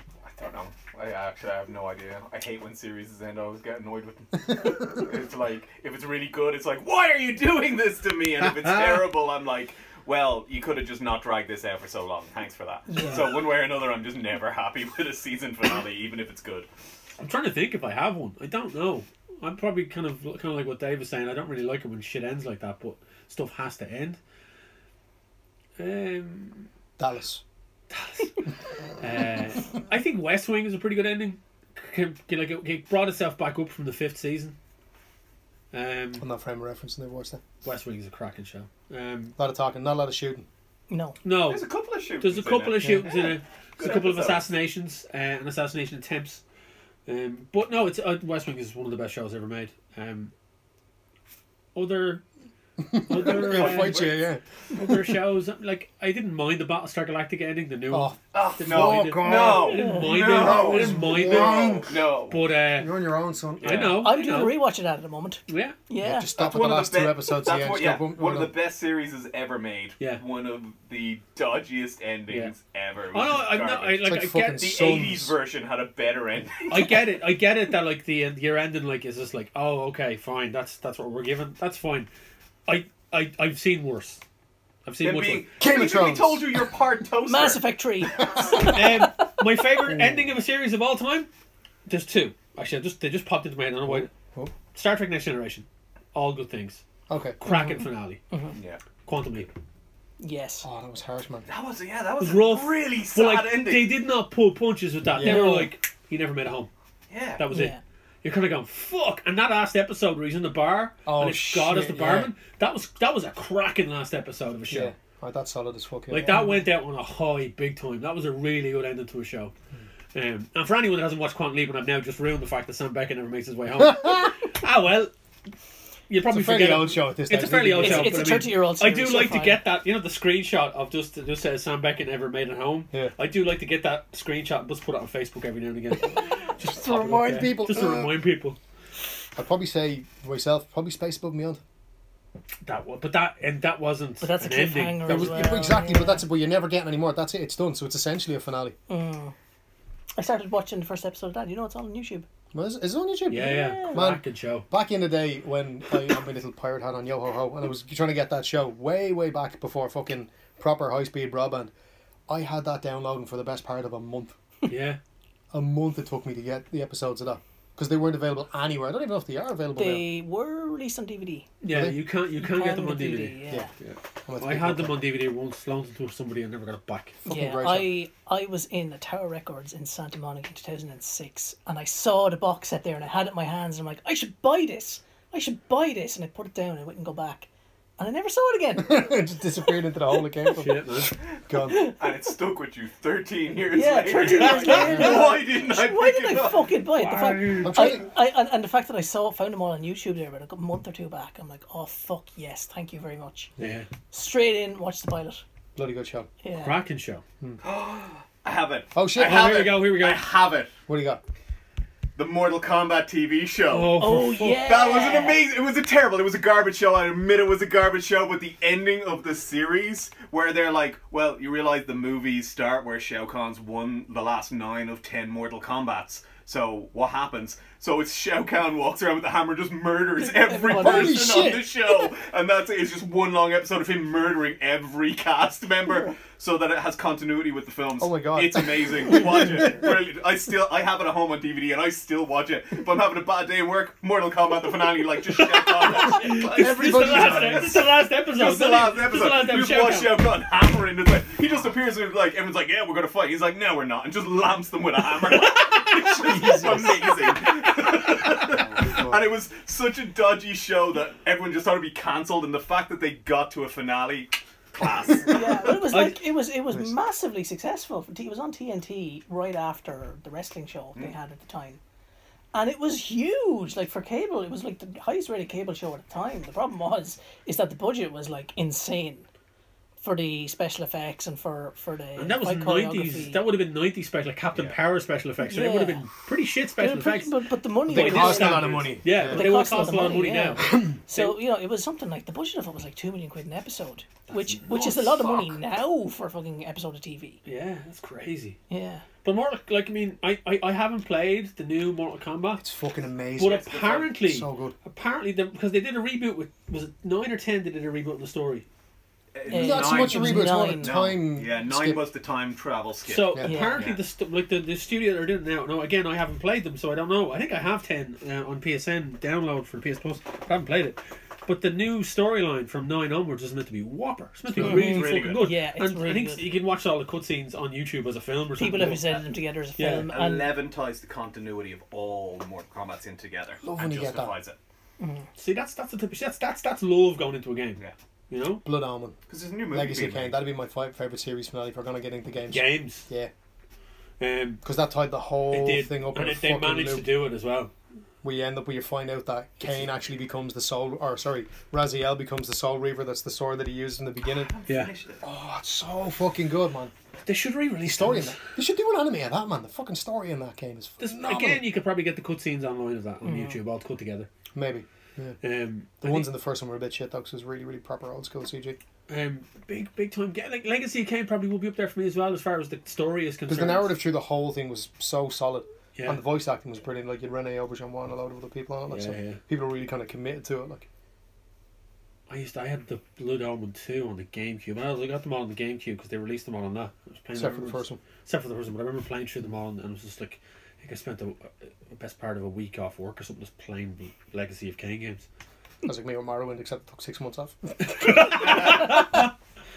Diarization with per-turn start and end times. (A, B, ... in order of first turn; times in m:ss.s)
0:00.2-0:16.7 A
0:12.9-0:13.4 B
0:17.2-0:24.2 C
0:25.8-0:26.7 C
0:27.0-0:27.4 D
0:27.9-0:28.4 C
0:29.0-0:34.6 C
0:35.7-0:36.2 C
0:36.2-0:37.4 D
0:37.6-0:39.3 C
0:39.4-0:40.4 D
0:40.9-0:41.2 B
0:41.2-0:46.4 C
0:41.4-0:44.5 A
0:47.1-0:50.3 C
0:51.7-0:52.2 C
0:52.8-0:54.4 D
0:53.0-0:54.1 C
0:53.1-0:54.2 A
0:54.7-1:02.9 C
0:57.9-1:02.1 D
0:58.3-1:02.4 A
0:59.7-1:00.1 B
1:02.8-1:04.0 D
1:03.6-1:04.6 C
1:03.6-1:04.0 A
1:04.0-1:06.3 B
1:05.5-1:05.8 C
1:06.0-1:08.5 D
1:06.3-1:17.0 A
1:12.3-1:12.5 C
1:13.1-1:14.6 C
1:14.0-1:15.3 D
1:16.7-1:22.1 C
1:22.7-1:24.2 C
1:24.8-1:25.5 C
1:25.0-1:27.6 A
1:25.6-1:26.7 D
1:27.2-1:29.1 B
1:28.4-1:28.8 D
1:28.5-1:31.3 C
1:29.8-1:30.3 D
1:31.8-1:34.1 C
1:33.8-1:34.5 D
1:34.7-1:36.8 C
1:37.1-1:37.4 D
1:37.4-1:38.2 C
1:37.4-1:38.6 B
1:38.5-1:38.8 A
1:39.0-1:39.5 C
1:40.2-1:40.7 B
1:40.6-1:41.5 D
1:41.4-1:44.0 A
1:42.2-1:46.7 C
1:45.1-1:45.7 D
1:45.2-1:45.7 B
1:47.1-1:47.4 A
1:47.4-1:54.9 C
1:47.5-1:47.8 B
1:51.0-1:52.3 D
1:54.7-1:56.5 D
1:56.1-1:59.5 C
1:56.3-1:56.6 B
2:00.1-2:05.1 C
2:03.8-2:04.3 D
2:06.1-2:18.6 C
2:06.3-2:08.5 D
2:07.8-2:09.6 B
2:16.6-2:18.2 D
2:19.4-2:21.6 D
2:22.6-2:25.4 C
2:24.2-2:26.2 B
2:25.0-2:28.8 D
2:28.9-2:29.3 B
2:30.2-2:32.3 B
2:32.5-2:41.7 D
2:33.3-2:34.6 C
2:33.3-2:34.0 B
2:42.3-2:44.4 D
2:44.7-2:45.0 C
2:45.5-2:50.0 D
2:49.8-2:51.5 B
2:51.6-2:57.2 C
2:51.7-2:52.0 D
2:52.4-2:53.7 B
2:54.3-2:55.0 D
2:57.2-2:57.9 D
2:57.2-3:09.2 B
3:08.8-3:11.9 D
3:10.5-3:11.2 C
3:11.6-3:16.7 A
3:11.7-3:12.0 B
3:13.7-3:23.5 B
3:14.2-3:15.1 C
3:14.8-3:15.2 D
3:16.9-3:18.0 C
3:17.6-3:18.1 D
3:23.6-3:23.9 C
3:24.1-3:25.4 B
3:25.8-3:26.3 D
3:26.4-3:26.8 B
3:26.5-3:27.2 C
3:27.6-3:30.7 A
3:28.9-3:29.5 D
3:29.2-3:30.3 C
3:30.9-3:31.2 D
3:32.2-4:25.9 A
3:33.7-3:34.6 C
3:34.0-3:35.4 B
3:50.2-3:51.5 B
3:50.7-3:51.7 D
3:58.0-4:00.0 D
4:05.8-4:10.2 C
4:06.2-4:07.8 D
4:15.4-4:16.7 C
4:16.1-4:17.0 D
4:18.4-4:19.2 D
4:25.3-4:31.8 B
4:25.9-4:26.2 C
4:32.5-4:39.3 B
4:40.0-4:43.4 B
4:42.2-4:51.4 C
4:44.5-4:44.8 A
4:45.4-4:46.1 B
4:46.8-4:57.4 B
4:47.9-4:49.9 D
4:50.6-4:51.0 D
4:54.3-4:55.5 A
4:57.4-4:58.6 C
4:58.7-4:59.0 B
4:59.2-5:02.6 C
5:02.6-5:04.7 D
5:03.4-5:08.6 C
5:03.4-5:04.1 A
5:09.3-5:14.0 A
5:09.5-5:10.9 B
5:09.5-5:12.0 D
5:13.0-5:29.1 C
5:13.4-5:13.8 B
5:24.6-5:24.8 D
5:24.6-5:25.4 A
5:24.6-5:26.5 B
5:28.6-5:30.5 B
5:28.8-5:29.2 A
5:29.8-5:30.1 C
5:29.9-5:34.6 A
5:33.6-5:34.3 D
5:35.0-5:35.3 B
5:35.4-5:38.6 C
5:38.6-5:43.3 D
5:39.3-5:40.4 A
5:42.5-5:43.1 C
5:44.2-5:44.6 C
5:44.6-5:47.1 D
5:45.5-5:47.7 C
5:48.2-5:54.5 D
5:54.3-5:55.2 A
5:55.2-5:56.9 D
5:57.2-5:58.4 C
5:57.8-6:01.6 D
6:01.0-6:04.3 C
6:03.2-6:03.6 B
6:04.5-6:05.4 D
6:05.4-6:06.3 C
6:06.0-6:08.8 D
6:09.1-6:13.9 C
6:13.5-6:20.9 D
6:18.9-6:19.4 C
6:22.3-6:35.3 C
6:27.3-6:28.0 D
6:35.8-6:39.3 D
6:37.8-6:39.3 C